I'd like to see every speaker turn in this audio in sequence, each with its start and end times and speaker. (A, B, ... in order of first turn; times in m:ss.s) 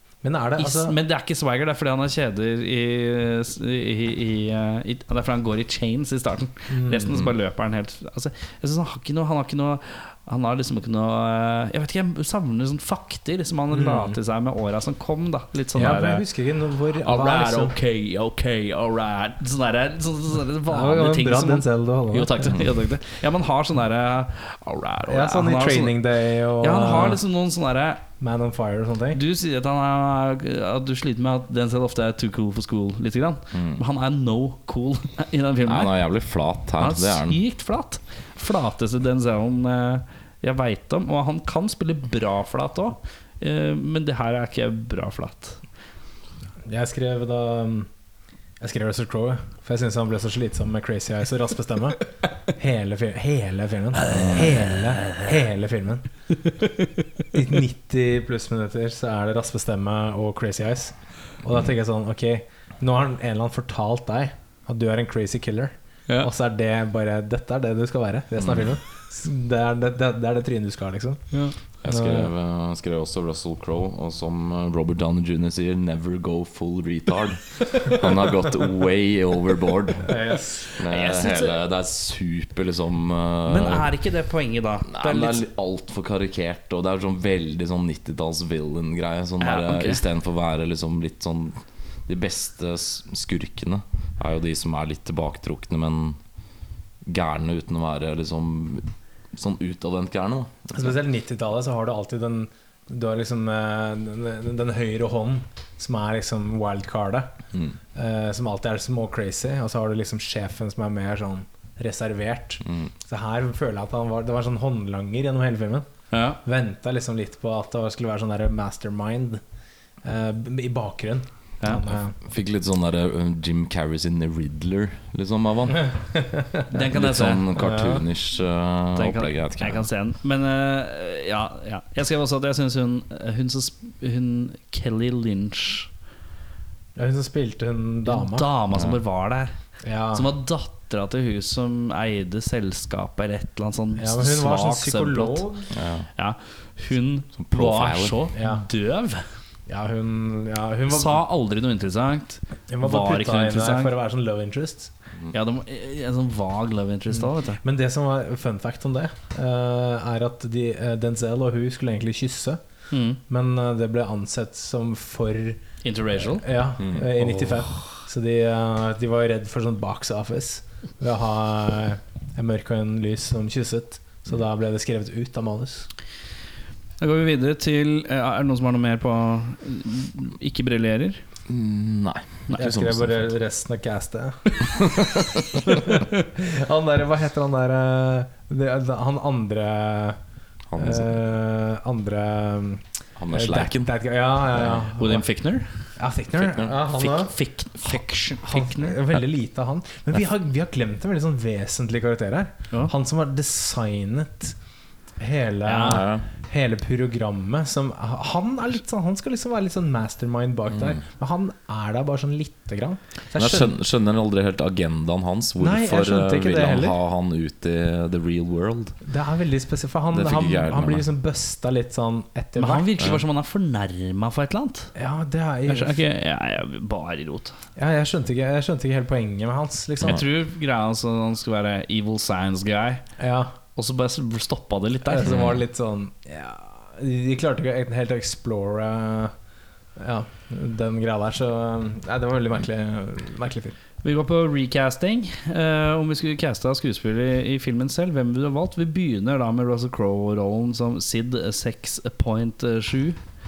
0:00.2-0:01.0 A
0:00.6-0:16.2 B
0:06.7-0:07.2 A
0:13.7-0:14.2 A
0:15.7-0:17.7 A
0:17.0-0:26.0 B
0:20.7-0:22.6 A
0:25.1-0:27.2 A
0:26.6-0:28.0 B
0:28.2-0:29.2 A
0:29.1-0:35.9 B
0:33.5-0:33.8 C
0:35.6-0:37.4 C
0:36.8-0:45.6 B
0:46.7-0:47.9 A
0:48.6-0:56.1 A
0:54.1-0:54.5 C
0:56.5-0:56.9 B
0:57.3-1:11.2 A
1:08.4-1:08.7 C
1:11.8-1:20.1 C
1:11.8-1:12.3 A
1:20.0-1:20.7 A
1:20.7-1:21.6 B
1:20.8-1:23.9 C
1:23.4-1:25.4 B
1:24.9-1:36.2 C
1:29.4-1:30.0 B
1:37.0-1:40.9 C
1:40.7-1:47.3 A
1:47.9-1:55.8 A
1:56.1-1:56.4 B
1:56.4-1:59.4 A
2:00.0-2:02.2 A
2:02.2-2:05.9 C
2:06.1-2:06.6 A
2:06.7-2:07.4 B
2:06.8-2:09.9 C
2:07.5-2:08.0 A
2:09.0-2:15.9 B
2:17.0-2:18.4 A
2:18.0-2:19.6 B
2:18.7-2:19.0 C
2:19.8-2:20.3 A
2:20.1-2:25.4 B
2:24.0-2:25.7 A
2:25.7-2:26.1 C
2:26.2-2:29.2 B
2:27.4-2:28.2 C
2:28.3-2:28.6 A
2:29.7-2:31.2 A
2:30.9-2:33.9 B
2:32.7-2:34.9 A
2:35.3-2:37.6 B
2:37.1-2:42.6 A
2:42.9-2:43.2 B
2:43.3-2:45.6 A
2:45.8-2:46.5 B
2:46.2-2:55.9 A
2:46.8-2:47.1 C
2:57.0-3:01.2 B
3:01.5-3:03.3 C
3:02.6-3:04.9 A
3:04.8-3:05.6 C
3:05.6-3:10.2 A
3:10.7-3:11.2 C
3:10.8-3:15.2 A
3:13.2-3:13.9 C
3:14.6-3:14.8 C
3:15.0-3:15.7 B
3:16.0-3:17.3 A
3:16.4-3:16.7 C
3:16.9-3:19.0 B
3:18.4-3:24.6 A
3:25.2-3:33.7 A
3:25.6-3:26.0 B
3:25.9-3:26.2 C
3:33.3-3:39.0 C
3:35.6-3:37.0 A
3:39.0-3:42.9 A
3:40.1-3:41.0 C
3:42.6-3:44.9 B
3:44.9-3:46.0 A
3:45.7-3:47.6 B
3:47.8-3:50.2 A
3:50.0-3:53.0 B
3:53.2-3:53.5 A
3:53.7-3:55.4 B
3:55.0-3:59.3 A
3:55.2-3:55.6 C
4:00.0-4:03.8 A
4:04.0-4:13.2 B